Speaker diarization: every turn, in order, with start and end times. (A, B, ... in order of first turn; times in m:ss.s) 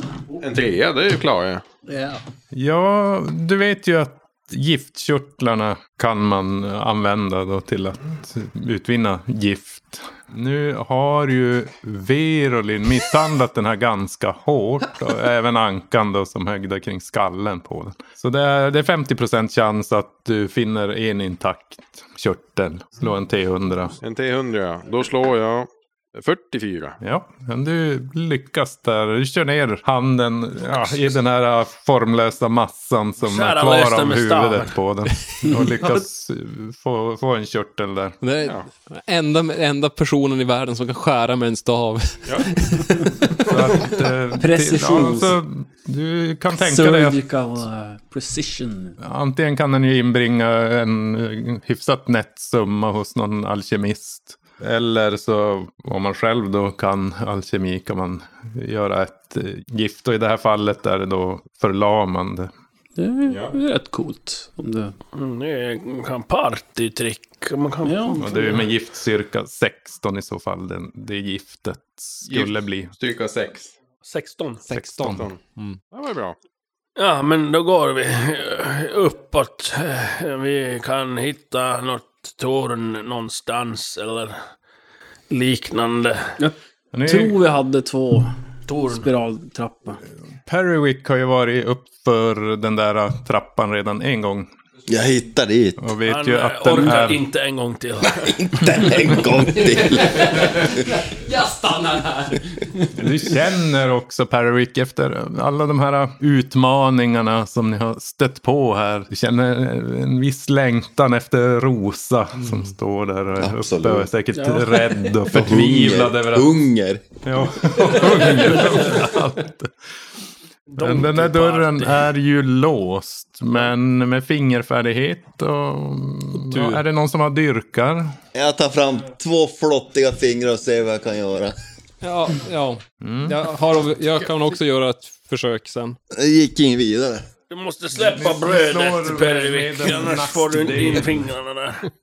0:00.4-0:01.6 A
0:01.9-0:02.2 B
0:02.5-0:24.0 C
0:24.0-0:27.0 A
0:27.0-0:38.2 C
0:33.2-0:34.8 D
0:38.2-0:43.8 E
0:38.4-0:38.7 A
0:43.4-0:47.2 C
0:44.4-0:45.3 B
0:46.6-0:49.0 B
0:49.0-1:02.5 C
1:03.0-1:04.9 B
1:03.3-1:03.6 A
1:05.2-1:08.6 D
1:07.8-1:08.5 B
1:08.2-1:12.9 C
1:12.2-1:13.7 A
1:14.0-1:14.7 D
1:14.7-1:15.8 E
1:14.7-1:15.3 C
1:15.0-1:15.4 A
1:15.9-1:16.4 A
1:17.0-1:24.4 D
1:25.3-1:26.3 D
1:26.4-1:28.3 B
1:26.9-1:27.4 C
1:28.7-1:29.1 D
1:28.8-1:30.0 B
1:30.4-1:34.5 C
1:34.9-1:35.9 F
1:35.8-1:37.2 C
1:36.0-1:38.3 D
1:38.1-1:40.9 F
1:39.5-1:42.5 E
1:42.9-1:56.5 C
1:53.4-1:54.1 F
1:54.3-1:54.8 B
1:55.3-1:57.0 F
1:57.2-1:59.7 C
1:58.0-1:59.2 D
2:00.7-2:02.1 D
2:00.8-2:08.2 C
2:06.4-2:06.8 E
2:08.3-2:11.6 F
2:12.0-2:16.0 E
2:13.0-2:13.4 C
2:16.1-2:17.2 F
2:17.5-2:21.9 D
2:18.0-2:21.3 C